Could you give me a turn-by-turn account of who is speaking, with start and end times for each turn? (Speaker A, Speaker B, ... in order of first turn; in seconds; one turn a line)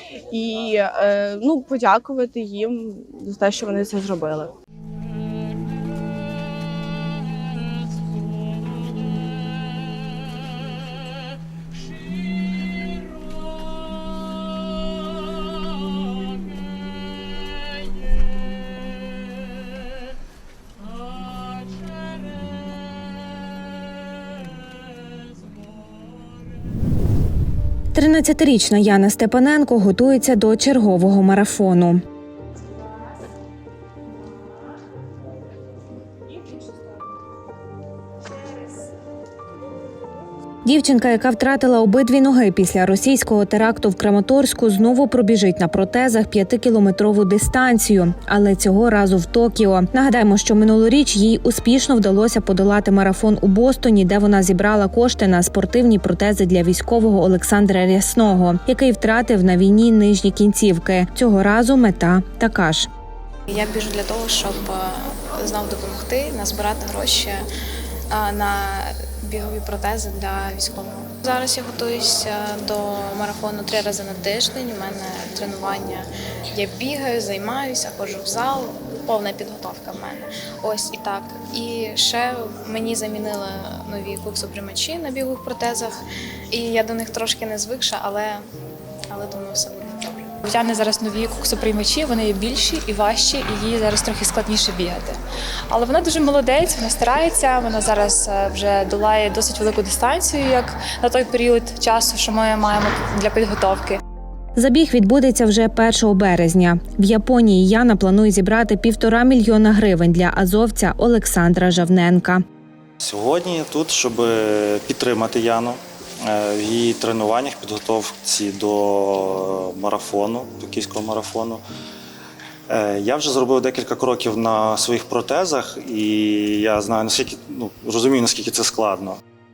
Speaker A: 0.3-4.5
Speaker B: 27.9-32.0
Speaker B: 40.7-62.9
Speaker C: 63.5-67.4
Speaker C: 68.1-86.0
Speaker C: 86.5-88.4
Speaker C: 89.1-90.4
Speaker D: 90.4-95.2
Speaker D: 95.7-104.0
Speaker B: 104.6-112.4
Speaker E: 113.0-121.6
Speaker E: 122.7-129.2